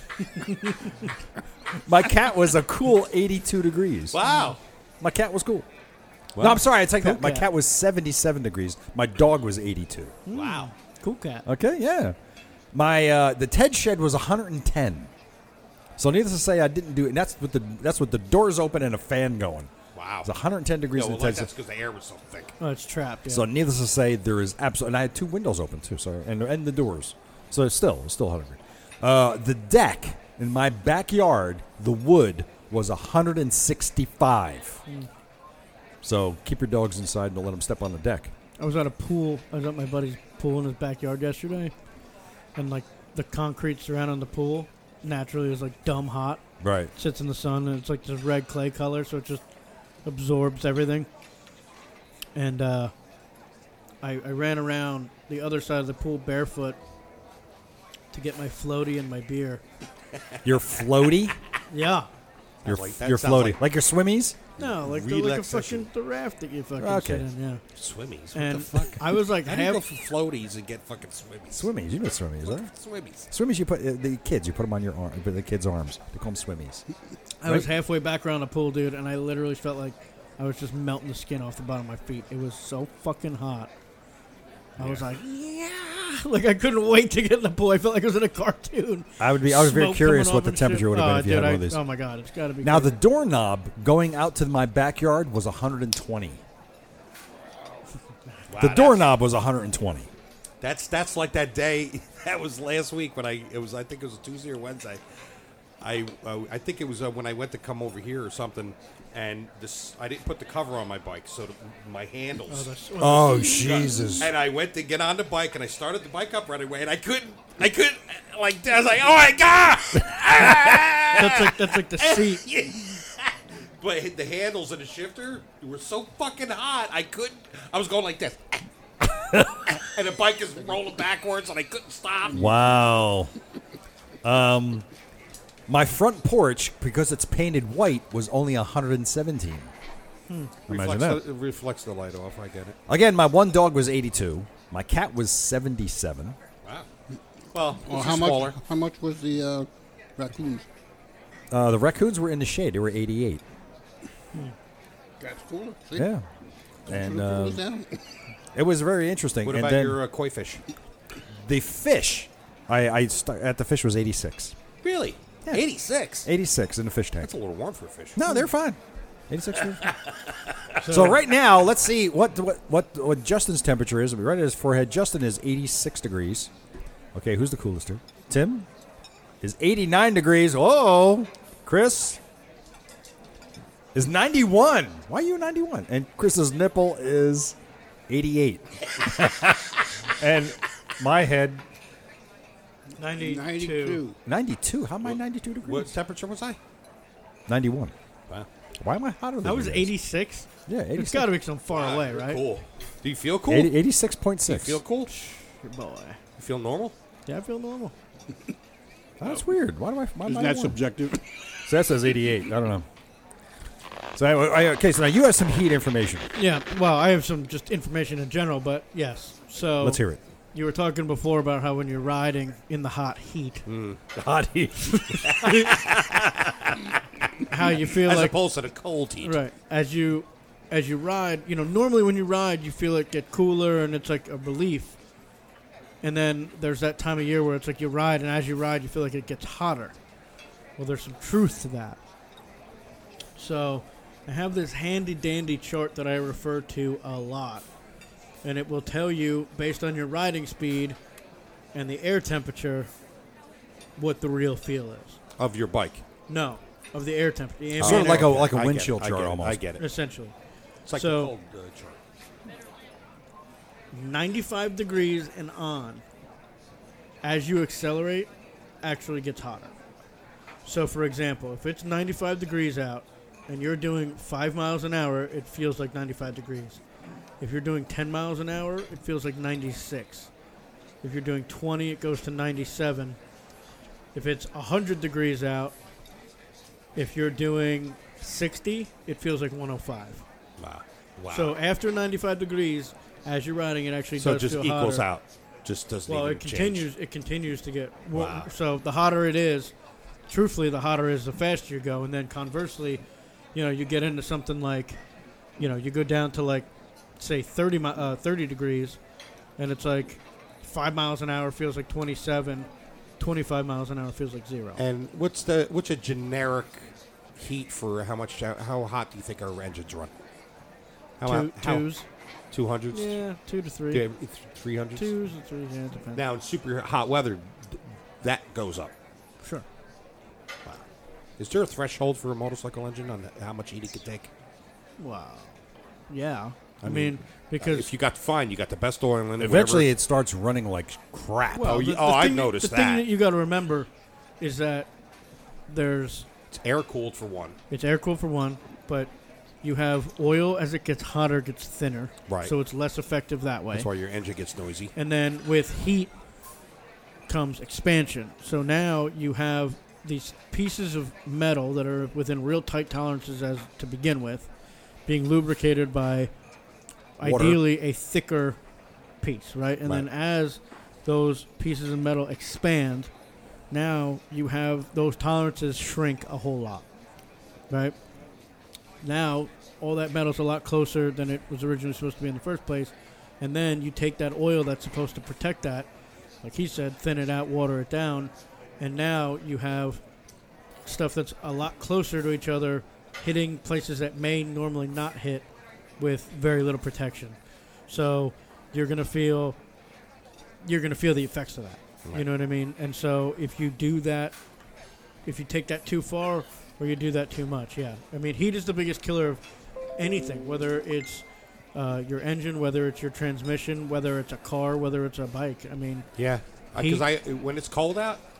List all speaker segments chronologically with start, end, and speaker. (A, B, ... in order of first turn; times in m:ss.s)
0:00.4-0:00.8 A
0:01.8-0:04.2 B
0:04.1-0:04.6 C
0:04.2-0:04.6 A
0:05.0-0:05.7 B
0:06.3-0:06.6 C
0:06.4-0:10.2 B
0:07.0-0:07.5 A
0:10.3-0:11.4 A
0:10.3-0:10.7 C
0:11.4-0:12.2 B
0:12.7-0:15.1 B
0:16.0-0:19.7 B
0:19.9-0:20.3 C
0:20.2-0:21.5 B
0:20.9-0:22.5 C
0:22.6-0:23.5 A
0:23.3-0:34.8 B
0:36.0-0:38.3 B
0:38.6-0:41.7 A
0:42.6-0:46.4 A
0:46.6-0:46.9 B
0:47.0-0:49.4 A
0:50.0-0:51.1 A
0:52.3-0:52.9 A
0:54.0-0:56.8 A
0:58.1-0:59.6 A
1:00.4-1:01.4 B
1:01.7-1:02.1 A
1:02.6-1:03.6 C
1:02.6-1:04.4 B
1:04.6-1:07.6 A
1:04.6-1:05.9 C
1:06.8-1:07.2 B
1:07.8-1:11.6 C
1:08.3-1:09.8 A
1:11.5-1:12.7 B
1:12.4-1:13.3 C
1:13.3-1:16.8 B
1:17.4-1:23.7 A
1:17.4-1:17.7 B
1:24.8-1:33.0 A
1:29.2-1:31.8 B
1:32.6-1:36.4 B
1:38.5-1:39.1 C
1:38.6-1:40.1 B
1:40.6-1:45.0 C
1:45.8-1:52.7 C
1:52.5-1:53.8 A
1:53.0-1:54.3 B
1:53.7-2:08.6 C
2:01.1-2:02.4 A
2:09.3-2:09.6 B
2:09.7-2:12.5 C
2:12.3-2:13.3 B
2:14.2-2:14.8 B
2:15.7-2:19.7 B
2:20.7-2:21.2 B
2:20.7-2:22.8 C
2:22.9-2:26.4 B
2:27.5-2:28.6 C
2:27.8-2:30.6 D
2:31.5-2:33.4 B
2:35.2-2:36.1 D
2:36.0-2:36.2 B
2:36.9-2:37.6 B
2:36.9-2:37.9 D
2:38.5-2:40.0 B
2:39.4-2:40.6 C
2:41.4-2:44.6 B
2:44.8-2:46.3 C
2:46.2-2:47.3 B
2:47.2-2:48.2 C
2:48.2-2:49.9 B
2:49.7-2:50.8 C
2:50.8-2:51.2 A
2:50.8-2:56.5 B
2:57.1-2:58.7 B
2:59.4-3:02.2 B
3:03.9-3:07.6 B
3:08.1-3:11.6 B
3:13.0-3:14.0 A
3:13.1-3:14.2 D
3:14.2-3:15.9 B
3:15.0-3:16.6 C
3:17.5-3:17.9 B
3:18.8-3:19.9 B
3:19.4-3:22.4 A
3:20.7-3:21.3 B
3:21.7-3:23.7 C
3:23.5-3:24.8 B
3:24.4-3:25.1 C
3:25.1-3:26.2 A
3:26.4-3:26.9 C
3:27.3-3:27.9 A
3:29.2-3:30.8 B
3:30.2-3:31.2 D
3:31.6-3:32.8 B
3:34.1-3:36.3 B
3:36.4-3:40.0 A
3:39.8-3:40.2 B
3:40.5-3:43.6 A
3:43.6-3:44.1 C
3:44.2-3:45.7 B
3:45.2-3:45.7 A
3:45.2-3:46.9 C
3:47.5-3:48.4 A
3:47.8-3:49.4 C
3:49.2-3:55.0 A
3:56.0-3:59.9 A
4:00.8-4:02.0 A
4:03.4-4:07.6 A
4:08.4-4:11.0 A
4:11.7-4:12.9 A
4:14.0-4:15.2 A
4:15.4-4:16.0 C
4:16.3-4:18.4 A
4:17.8-4:19.8 C
4:17.8-4:19.6 B
4:19.8-4:20.3 A
4:20.8-4:22.0 C
4:20.9-4:21.3 A
4:23.9-4:26.0 A
4:27.2-4:28.3 A
4:28.8-4:29.7 A
4:30.6-4:36.8 A
4:37.4-4:40.3 A
4:41.0-4:43.2 A
4:44.1-4:45.8 A
4:47.0-4:50.2 A
4:50.6-4:51.5 C
4:51.3-4:55.0 A
4:54.2-4:56.9 C
4:56.1-4:59.7 A
4:58.1-4:58.5 C
5:00.3-5:03.0 A
5:03.5-5:05.0 A
5:05.6-5:06.7 A
5:07.2-5:09.0 A
5:09.6-5:12.7 A
5:13.2-5:14.8 A
5:14.8-5:20.1 C
5:21.2-5:21.9 C
5:21.2-5:22.0 A
5:22.5-5:23.1 C
5:22.9-5:24.0 A
5:23.9-5:25.1 C
5:25.0-5:26.2 A
5:26.1-5:28.9 C
5:31.4-5:34.3 C
5:35.0-5:35.6 A
5:36.1-5:37.9 A
5:36.8-5:39.9 C
5:39.4-5:41.6 B
5:41.5-5:43.1 C
5:41.5-5:43.9 A
5:44.4-5:44.9 A
5:45.7-5:46.3 A
5:46.5-5:47.6 C
5:47.7-5:49.1 A
5:49.6-5:53.9 A
5:52.3-5:52.5 C
5:53.7-5:54.9 C
5:55.0-5:56.1 A
5:57.3-6:04.5 A
6:05.0-6:06.3 A
6:07.2-6:08.6 A
6:07.2-6:07.6 B
6:09.2-6:13.1 A
6:13.7-6:16.8 A
6:17.7-6:17.9 A
6:19.0-6:25.9 A
6:26.4-6:30.0 A
6:30.8-6:35.5 A
6:36.0-6:37.4 A
6:37.9-6:39.6 A
6:40.6-6:44.4 A
6:45.2-6:49.4 A
6:50.0-6:56.0 A
6:56.2-6:58.2 C
6:56.8-6:57.0 A